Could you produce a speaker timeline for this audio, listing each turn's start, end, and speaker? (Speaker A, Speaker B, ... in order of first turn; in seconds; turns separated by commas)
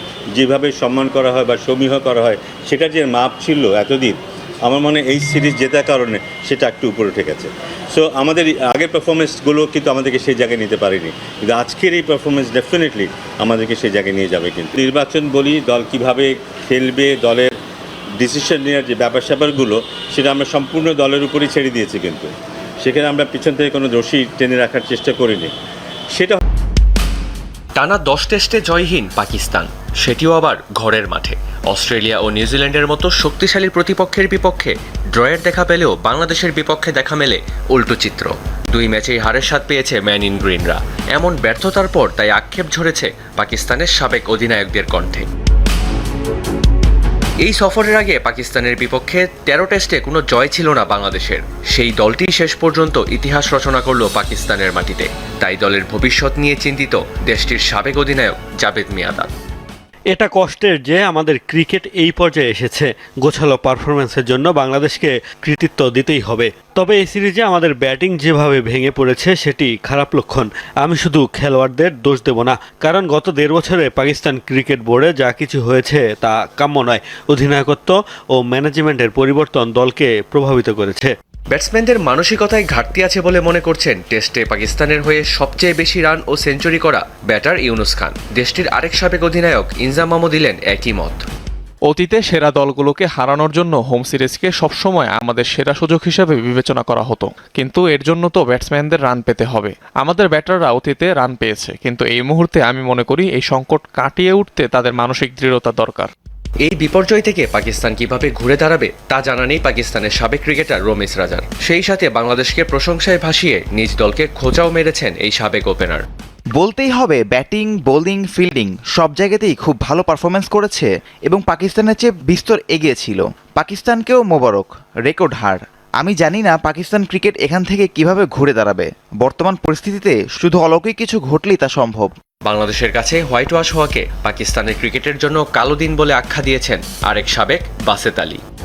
Speaker A: 0.4-17.5, Speaker A: 18.2-22.3, Speaker A: 22.8-25.5, Speaker A: 26.1-26.4, Speaker B: 27.8-45.3, Speaker B: 47.4-59.3, Speaker C: 60.1-81.1, Speaker B: 81.5-91.2, Speaker D: 91.8-106.1, Speaker B: 106.6-116.0, Speaker E: 116.6-132.1, Speaker B: 132.5-138.4